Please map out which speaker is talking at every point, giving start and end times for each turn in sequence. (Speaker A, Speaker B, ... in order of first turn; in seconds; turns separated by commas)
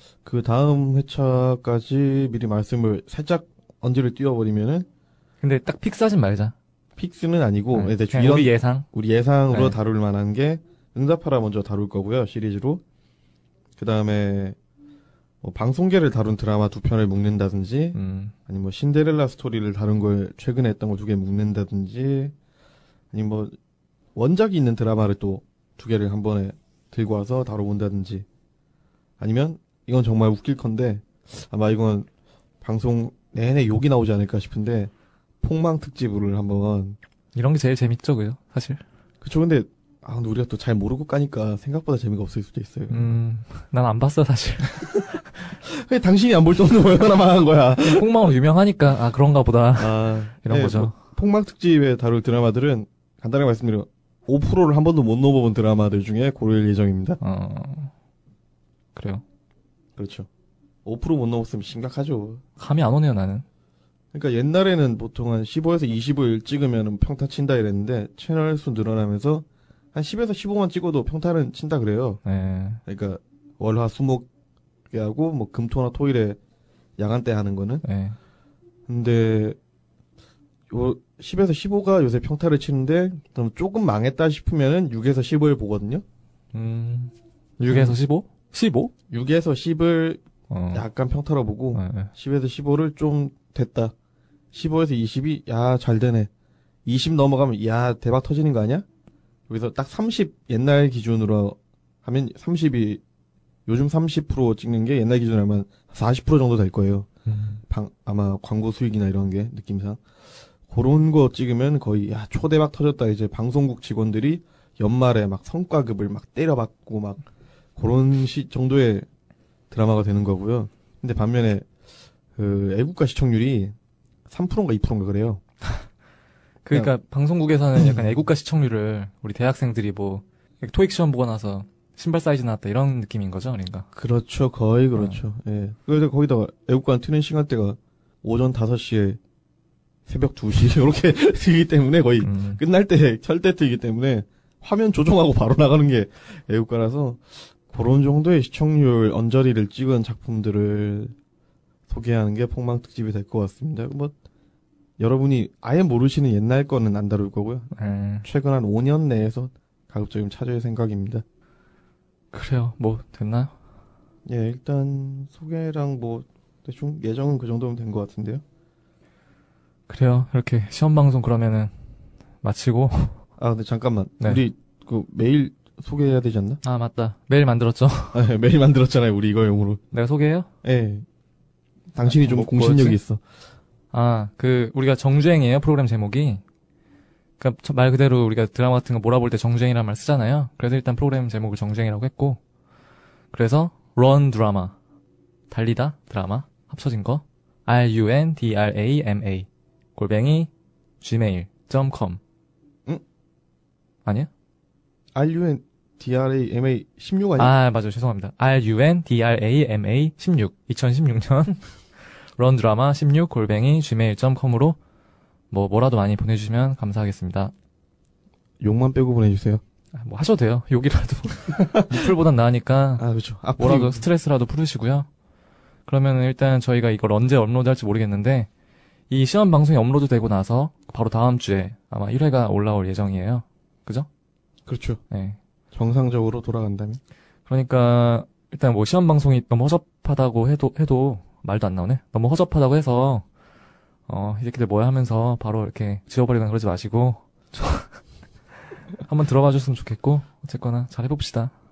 Speaker A: 0.2-4.9, Speaker B: 5.4-6.5, Speaker A: 7.0-12.8, Speaker B: 7.7-8.8, Speaker B: 9.5-9.8, Speaker A: 13.8-14.6, Speaker A: 15.4-22.3, Speaker B: 17.9-18.3, Speaker A: 23.1-23.6, Speaker A: 24.1-28.2, Speaker A: 29.2-32.1, Speaker A: 32.6-37.0, Speaker B: 37.3-38.8, Speaker A: 39.2-43.1, Speaker B: 42.9-45.5, Speaker A: 45.6-48.1, Speaker B: 47.8-50.9, Speaker A: 49.8-57.2, Speaker B: 57.2-57.9, Speaker B: 59.0-59.2, Speaker A: 60.0-60.3, Speaker A: 60.8-62.4, Speaker B: 62.6-63.4, Speaker A: 64.1-72.2, Speaker B: 72.2-72.8, Speaker A: 72.8-74.3, Speaker A: 74.9-76.4, Speaker A: 77.0-77.8, Speaker B: 77.8-78.2, Speaker A: 78.9-79.6, Speaker A: 80.7-86.0, Speaker B: 86.5-88.9, Speaker A: 87.7-88.0, Speaker A: 89.1-90.2, Speaker B: 90.5-90.8, Speaker A: 90.7-93.9, Speaker B: 91.7-92.1, Speaker A: 94.5-96.3, Speaker A: 96.8-98.8, Speaker A: 99.5-103.0, Speaker A: 103.7-107.1, Speaker B: 107.3-107.6, Speaker A: 107.7-110.0, Speaker A: 110.7-117.2, Speaker A: 117.8-119.0, Speaker A: 119.7-121.7, Speaker A: 122.3-123.7, Speaker A: 124.3-125.4, Speaker B: 126.6-133.9, Speaker A: 133.9-139.2, Speaker B: 134.9-135.2, Speaker A: 140.1-151.1, Speaker B: 142.2-142.6, Speaker A: 151.9-154.1, Speaker A: 155.0-157.7, Speaker B: 157.7-158.2, Speaker A: 158.2-161.2, Speaker B: 162.3-163.5, Speaker A: 164.2-168.4, Speaker B: 169.9-171.7, Speaker B: 172.4-173.2, Speaker A: 173.4-176.6, Speaker B: 176.6-178.2, Speaker A: 178.1-179.8, Speaker B: 179.9-180.5, Speaker A: 180.6-181.0, Speaker A: 181.9-183.2, Speaker B: 182.0-183.0, Speaker B: 183.9-186.4, Speaker B: 187.4-192.4, Speaker B: 193.3-194.8, Speaker B: 195.5-202.2, Speaker A: 205.1-207.5, Speaker B: 207.4-211.6, Speaker B: 212.4-214.8, Speaker B: 215.5-217.5, Speaker A: 218.6-219.6, Speaker B: 219.9-223.0, Speaker A: 221.6-221.8, Speaker A: 223.0-224.0, Speaker B: 223.6-225.1, Speaker B: 225.9-228.5, Speaker B: 229.1-234.1, Speaker A: 234.7-235.0, Speaker B: 235.1-235.4, Speaker A: 235.7-237.0, Speaker B: 237.5-243.2, Speaker B: 244.1-247.9, Speaker B: 249.0-251.5